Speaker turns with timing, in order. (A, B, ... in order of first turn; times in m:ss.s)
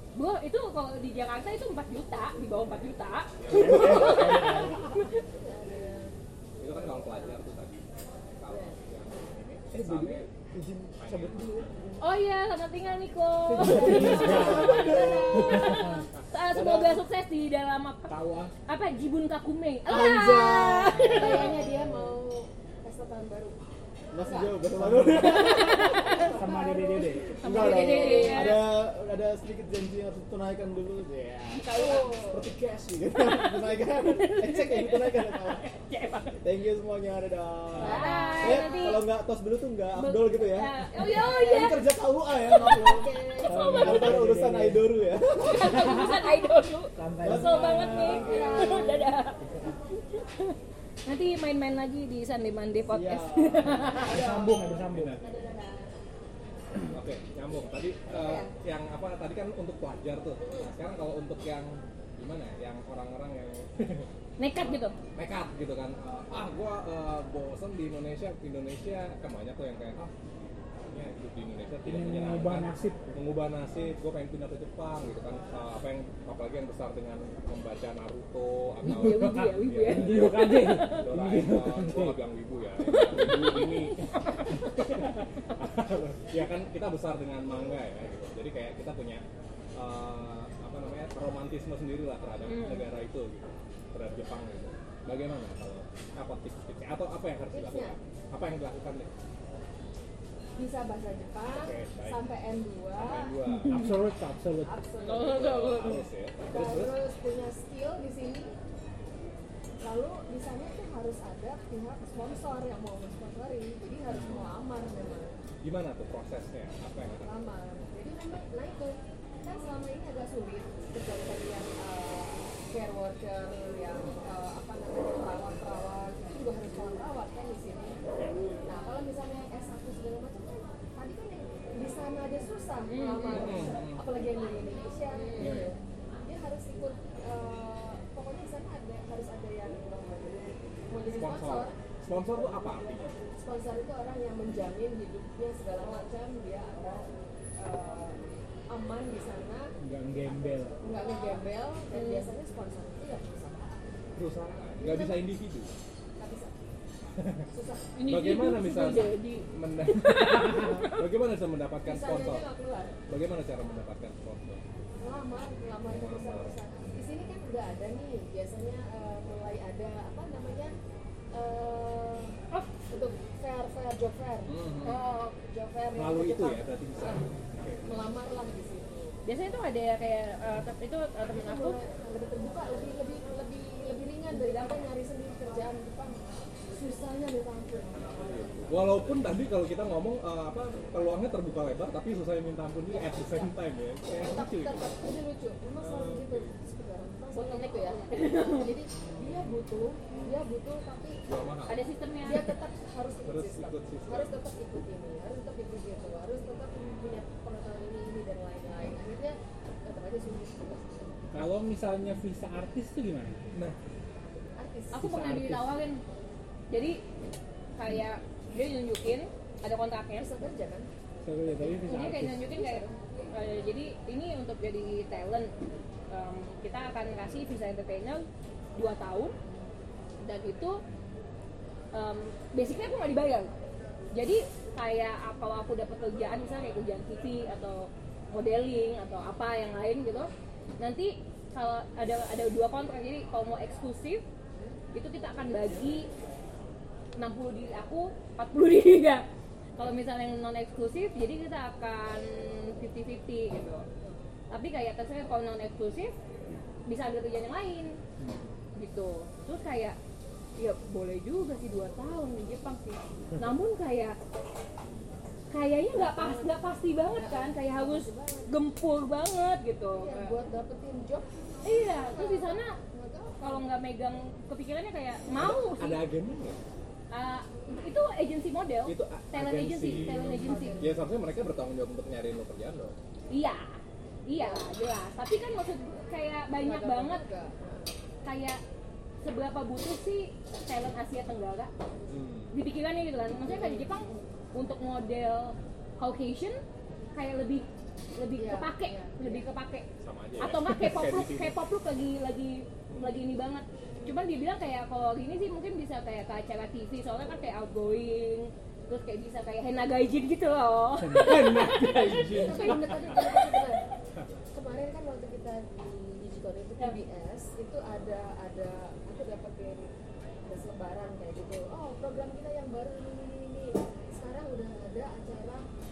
0:00.2-0:05.2 A
0:03.4-0:04.3 B
0:03.5-0:04.8 C
0:03.7-0:04.1 D
0:04.6-0:07.4 E
0:06.6-0:10.3 B
0:08.5-0:09.6 E
0:09.7-0:12.0 D
0:11.0-0:11.7 B
0:12.0-0:18.1 A
0:13.5-0:16.0 C
0:13.6-0:16.0 D
0:14.0-0:15.5 E
0:16.5-0:17.0 D
0:18.1-0:18.5 D
0:18.7-0:21.6 A
0:19.9-0:22.1 D
0:20.9-0:23.6 E
0:24.1-0:26.2 D
0:24.1-0:28.7 E
0:24.8-0:27.4 C
0:25.2-0:26.3 A
0:27.3-0:35.6 D
0:27.4-0:28.7 A
0:31.5-0:32.1 A
0:31.7-0:32.5 E
0:33.2-0:36.4 A
0:36.4-0:43.1 D
0:37.8-0:38.5 C
0:37.8-0:39.1 A
0:38.0-0:38.8 E
0:40.0-0:41.9 A
0:41.0-0:41.8 E
0:42.4-0:44.2 A
0:42.6-0:44.0 E
0:43.4-0:45.0 C
0:43.8-0:46.0 D
0:45.4-0:49.4 A
0:45.6-0:46.3 C
0:47.0-0:48.4 C
0:47.2-0:48.9 D
0:48.1-0:49.2 E
0:48.2-0:48.6 B
0:50.1-0:50.5 A
0:51.1-0:54.2 A
0:52.9-0:54.5 D
0:53.9-0:55.3 C
0:53.9-0:56.0 E
0:54.9-0:55.2 B
0:56.8-1:10.1 B
0:58.1-0:58.5 E
1:00.4-1:00.7 E
1:04.4-1:05.0 A
1:10.8-1:29.2 B
1:11.8-1:13.1 C
1:18.8-1:22.2 C
1:18.8-1:21.1 A
1:22.8-1:25.1 A
1:29.8-1:39.1 B
1:32.4-1:32.9 A
1:37.5-1:38.0 E
1:40.6-1:43.4 E
1:41.5-1:42.2 B
1:42.9-1:43.9 B
1:43.5-1:43.8 A
1:43.6-1:44.7 C
1:44.6-1:45.9 E
1:45.0-1:46.0 A
1:45.2-1:47.0 B
1:46.5-1:48.5 E
1:49.8-1:55.4 E
1:54.1-1:54.6 B
1:55.6-1:57.3 B
1:57.2-2:08.0 E
2:08.2-2:08.7 B
2:08.7-2:21.8 E
2:12.9-2:13.7 A
2:13.3-2:14.1 B
2:15.1-2:15.7 A
2:15.4-2:15.7 B
2:21.1-2:23.2 B
2:22.7-2:29.7 E
2:29.8-2:30.8 C
2:30.8-2:34.1 E
2:30.8-2:32.3 A
2:34.2-2:35.8 B
2:34.7-2:35.2 E
2:36.2-2:36.5 E
2:37.2-2:37.5 B
2:37.5-2:37.9 E
2:38.0-2:41.0 A
2:38.0-2:42.5 B
2:41.9-2:43.0 E
2:43.1-2:44.6 B
2:45.0-2:50.7 E
2:45.9-2:46.6 B
2:51.3-2:52.4 E
2:52.9-2:54.5 E
2:54.5-2:55.0 B
2:54.8-2:55.3 A
2:55.4-2:57.3 E
2:55.9-2:58.1 B
2:57.8-2:59.2 E
2:59.2-3:01.8 A
3:01.3-3:09.0 E
3:04.3-3:04.8 A
3:08.2-3:14.8 B
3:12.9-3:13.5 E
3:14.2-3:21.2 E
3:15.8-3:16.6 B
3:17.3-3:18.7 A
3:19.0-3:19.6 B
3:20.1-3:20.4 B
3:21.3-3:21.8 B
3:21.7-3:22.6 A
3:22.2-3:31.2 E
3:23.2-3:24.4 B
3:26.8-3:27.1 B
3:31.3-3:33.4 C
3:34.5-3:35.2 E
3:34.9-3:36.0 A
3:35.0-3:35.7 C
3:36.7-3:37.0 A
3:37.8-3:40.4 A
3:40.1-3:40.9 E
3:41.2-3:42.6 C
3:41.6-3:43.4 E
3:41.9-3:45.5 A
3:46.1-3:49.3 A
3:49.4-3:49.8 E
3:50.2-3:50.8 A
3:51.9-3:53.5 A
3:54.1-4:04.2 A
4:04.9-4:06.1 A
4:07.2-4:09.2 A
4:09.8-4:13.9 A
4:14.5-4:16.2 A
4:16.9-4:18.0 A
4:18.8-4:20.0 A
4:20.6-4:24.2 A
4:25.5-4:30.4 A
4:26.0-4:28.5 E
4:30.0-4:33.7 E
4:31.6-4:32.8 A
4:33.4-4:36.0 A
4:35.3-4:36.6 B
4:37.1-4:40.8 A
4:38.8-4:42.9 B
4:39.9-4:41.0 E
4:43.3-4:43.8 A
4:44.3-4:47.2 A
4:44.4-4:44.7 E
4:46.6-4:48.0 E
4:48.2-4:48.6 A
4:49.2-4:51.7 A
4:52.1-4:52.5 B
4:52.5-4:56.6 A
4:53.4-4:54.2 E
4:57.2-4:59.9 A
4:58.4-4:59.5 E
5:00.0-5:01.6 B
5:00.4-5:13.6 A
5:02.9-5:03.2 B
5:11.0-5:11.6 C
5:11.2-5:13.6 B
5:12.2-5:13.8 E
5:14.5-5:19.9 E
5:20.4-5:25.6 E